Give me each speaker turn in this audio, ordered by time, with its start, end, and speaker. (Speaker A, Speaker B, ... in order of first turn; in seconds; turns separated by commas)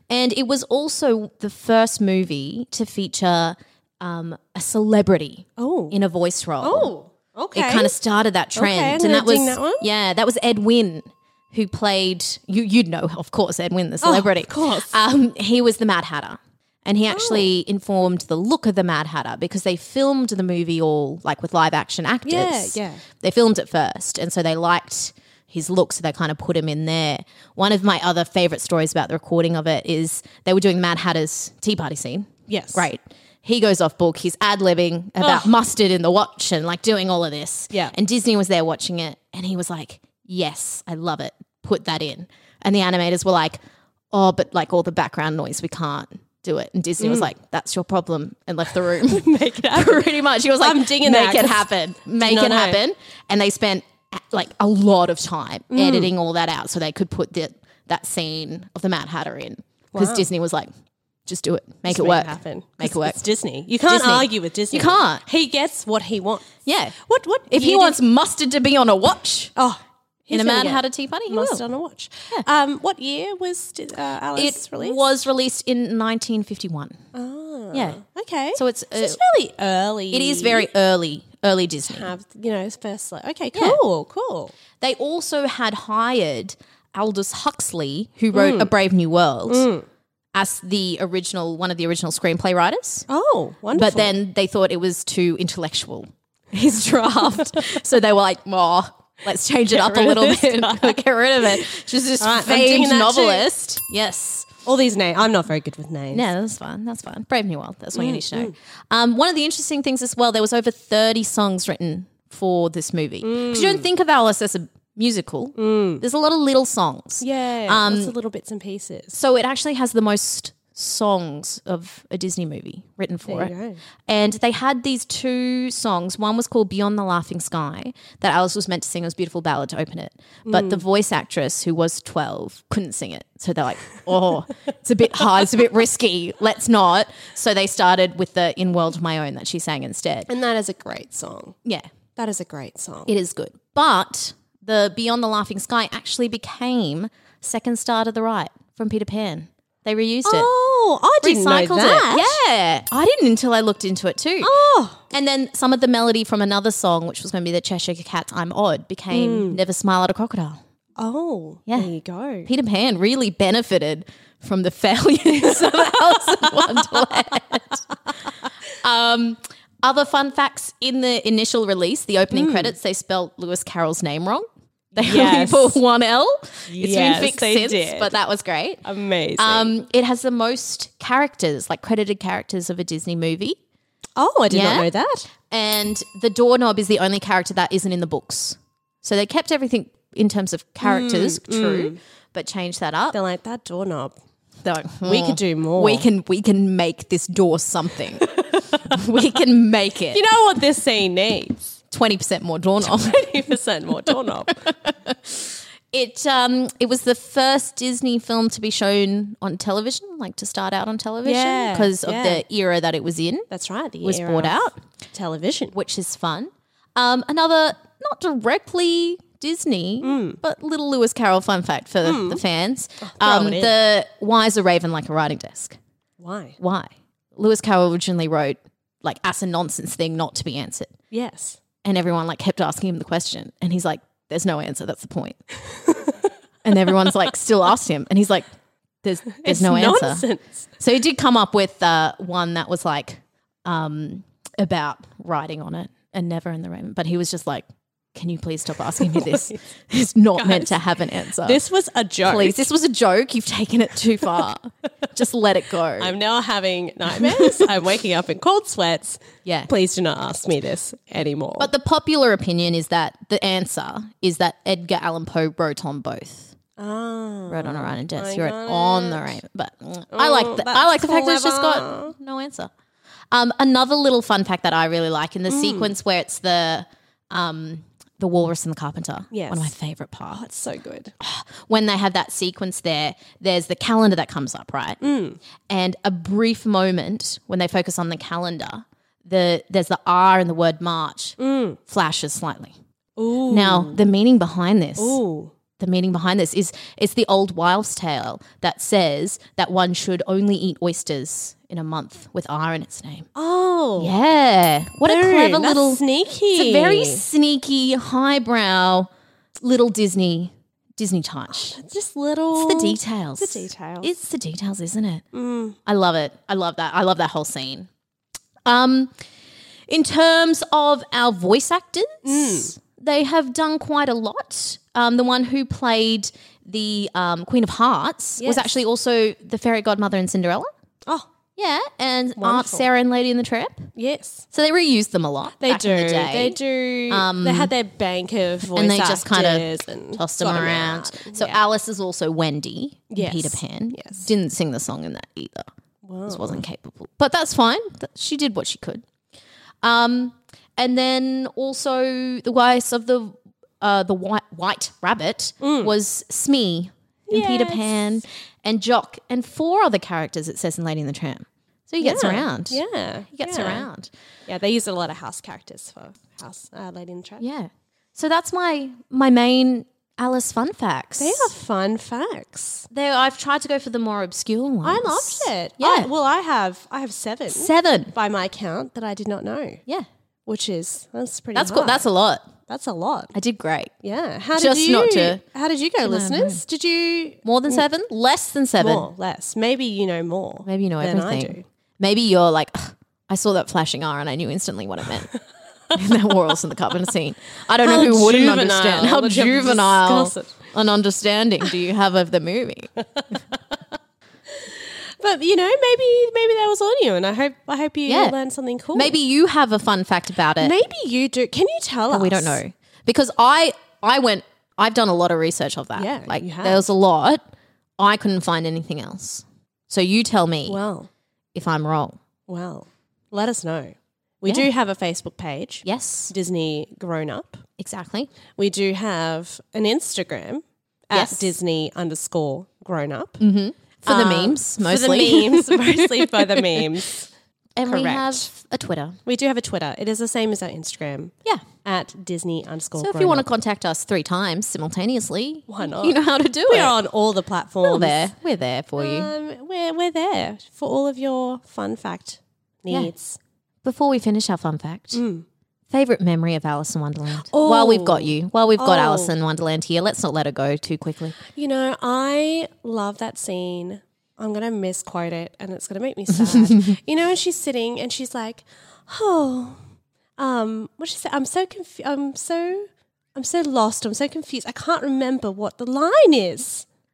Speaker A: 0.1-6.9, Speaker B: 5.6-6.0, Speaker B: 6.6-8.0, Speaker A: 7.5-43.6, Speaker B: 8.5-9.9, Speaker B: 14.0-15.0, Speaker B: 17.1-17.5, Speaker B: 22.3-23.0, Speaker B: 32.5-32.9, Speaker B: 35.2-35.5, Speaker A: 44.1-60.7, Speaker B: 47.0-47.3, Speaker B: 49.1-52.8, Speaker B: 55.7-56.1, Speaker B: 59.9-60.3, Speaker A: 61.3-63.2, Speaker B: 61.9-68.0, Speaker A: 63.9-65.2, Speaker A: 66.7-67.0, Speaker A: 67.5-69.5, Speaker B: 69.6-75.0, Speaker A: 70.3-71.6, Speaker A: 74.3-77.0, Speaker B: 77.1-80.7, Speaker A: 77.7-78.0, Speaker A: 78.5-79.2, Speaker A: 80.1-82.1, Speaker B: 81.8-84.5, Speaker A: 83.5-83.8, Speaker A: 84.8-89.7, Speaker B: 88.3-88.7, Speaker B: 89.5-89.9, Speaker A: 90.3-93.1, Speaker B: 93.1-94.2, Speaker A: 93.7-104.6, Speaker B: 99.7-103.5, Speaker B: 104.7-106.3, Speaker A: 106.1-118.2, Speaker B: 108.0-108.5, Speaker B: 113.2-113.9, Speaker B: 115.6-116.0, Speaker B: 117.2-119.2, Speaker A: 119.1-123.5, Speaker B: 123.3-123.8, Speaker A: 124.1-140.3, Speaker B: 130.5-130.8, Speaker B: 140.3-141.6, Speaker B: 142.2-143.1, Speaker A: 143.1-150.5, Speaker B: 150.2-152.4, Speaker A: 151.2-154.5, Speaker B: 154.4-155.0, Speaker A: 155.1-160.6, Speaker B: 159.1-159.6, Speaker B: 161.0-162.5, Speaker A: 162.4-167.8, Speaker B: 166.1-167.0, Speaker A: 168.8-174.4, Speaker B: 172.3-172.8, Speaker A: 175.0-178.8, Speaker B: 175.0-175.8, Speaker B: 176.7-178.2, Speaker B: 178.8-179.8, Speaker A: 179.4-183.6, Speaker B: 184.2-185.3, Speaker A: 184.5-184.9, Speaker A: 185.5-193.2, Speaker B: 190.8-192.0, Speaker B: 193.1-194.2, Speaker A: 194.6-200.2, Speaker B: 195.0-196.1, Speaker B: 200.1-201.8, Speaker A: 201.9-203.4, Speaker B: 202.8-204.7, Speaker A: 204.9-213.5, Speaker B: 211.2-212.4, Speaker B: 213.5-215.8, Speaker A: 214.0-214.8, Speaker A: 215.7-225.8, Speaker B: 220.0-220.4, Speaker B: 222.0-222.4, Speaker B: 223.0-223.8, Speaker B: 226.2-226.6, Speaker A: 226.6-230.9, Speaker B: 231.1-231.6, Speaker A: 231.8-235.4, Speaker A: 236.6-238.4, Speaker A: 239.0-251.6, Speaker B: 239.3-240.7, Speaker B: 249.2-249.6, Speaker B: 250.3-250.8, Speaker B: 251.4-252.7, Speaker A: 252.2-256.2, Speaker B: 256.0-261.7, Speaker A: 257.2-257.5, Speaker A: 259.4-259.7, Speaker A: 261.6-266.6, Speaker B: 266.8-269.4, Speaker A: 267.5-272.7, Speaker B: 270.1-272.1, Speaker A: 273.3-280.5, Speaker B: 275.5-275.9, Speaker B: 279.3-279.7, Speaker B: 280.3-281.1, Speaker A: 281.2-285.0, Speaker B: 285.0-285.4, Speaker A: 285.7-291.4, Speaker B: 291.4-291.8, Speaker A: 291.9-292.8, Speaker B: 293.2-294.0, Speaker A: 293.5-295.2, Speaker B: 295.0-295.5, Speaker A: 295.8-303.3, Speaker B: 303.4-304.2, Speaker A: 304.0-309.1, Speaker B: 305.0-307.2, Speaker A: 309.6-311.8, Speaker B: 311.5-314.1, Speaker A: 312.5-315.2, Speaker B: 315.3-315.8, Speaker A: 315.9-317.9, Speaker A: 318.6-319.1, Speaker A: 319.9-330.7, Speaker B: 322.2-322.7, Speaker B: 328.4-328.8, Speaker B: 331.1-331.3, Speaker A: 331.6-333.9, Speaker B: 332.4-332.9, Speaker B: 333.9-334.5, Speaker A: 334.5-337.7, Speaker B: 335.6-341.6, Speaker A: 338.6-345.7, Speaker B: 343.1-344.3, Speaker B: 346.0-346.6, Speaker A: 346.3-349.0, Speaker A: 349.8-362.8, Speaker B: 355.6-355.9, Speaker B: 357.3-358.2, Speaker B: 362.0-363.9, Speaker A: 363.3-364.1, Speaker B: 364.5-367.4, Speaker A: 367.4-371.5, Speaker B: 371.2-372.9, Speaker A: 372.9-376.1, Speaker B: 374.8-379.8, Speaker A: 377.5-378.1, Speaker B: 380.5-382.1, Speaker A: 381.6-382.5, Speaker B: 382.7-383.3, Speaker A: 383.3-383.9, Speaker B: 384.0-387.9, Speaker A: 384.5-385.4, Speaker A: 386.0-386.6, Speaker A: 387.4-389.1, Speaker B: 388.8-391.7, Speaker A: 390.6-395.3, Speaker A: 395.9-402.9, Speaker B: 397.8-400.6, Speaker B: 404.6-409.2, Speaker A: 408.1-408.4, Speaker A: 408.9-410.8, Speaker B: 410.6-412.6, Speaker A: 412.1-417.4, Speaker B: 416.0-416.9, Speaker A: 418.0-420.8, Speaker B: 420.7-421.1, Speaker A: 421.5-422.2, Speaker B: 422.5-427.6, Speaker A: 425.9-426.3, Speaker A: 427.8-428.3, Speaker B: 428.6-433.4, Speaker A: 431.1-431.6, Speaker A: 433.4-436.9, Speaker B: 434.0-437.3, Speaker A: 437.8-439.2, Speaker B: 437.8-438.5, Speaker B: 439.2-441.3, Speaker B: 441.8-443.5, Speaker A: 443.0-447.0, Speaker B: 445.7-448.4, Speaker A: 447.8-449.3, Speaker B: 449.0-453.4, Speaker A: 453.8-455.2, Speaker B: 455.1-455.5, Speaker A: 455.9-461.4, Speaker B: 457.4-459.3, Speaker B: 461.5-469.8, Speaker B: 470.4-476.9